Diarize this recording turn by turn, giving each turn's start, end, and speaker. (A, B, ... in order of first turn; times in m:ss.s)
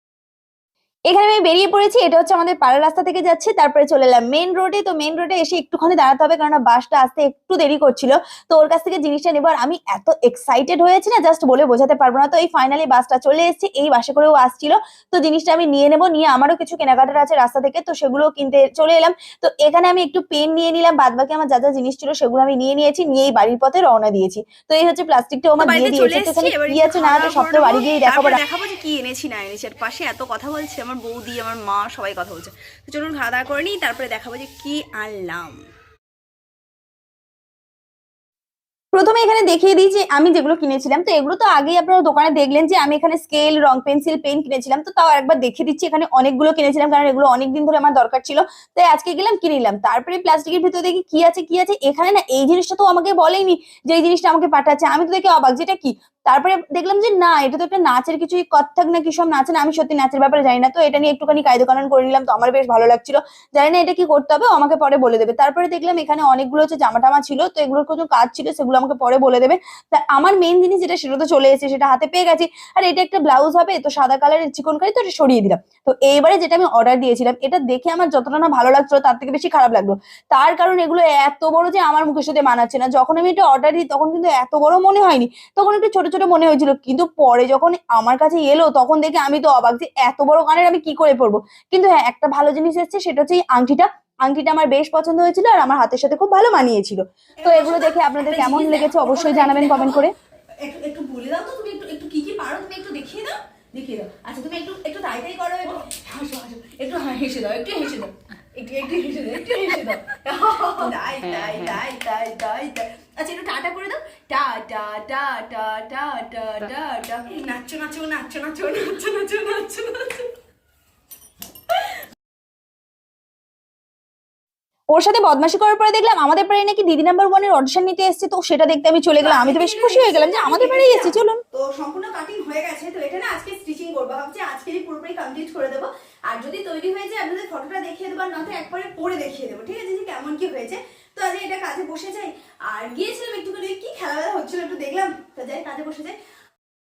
0:01.1-0:28.4 A
0:25.6-0:35.6 B
0:38.9-1:40.1 A
1:37.4-1:40.1 B
1:40.6-2:00.3 B
2:04.9-2:11.4 A
2:09.2-2:26.1 B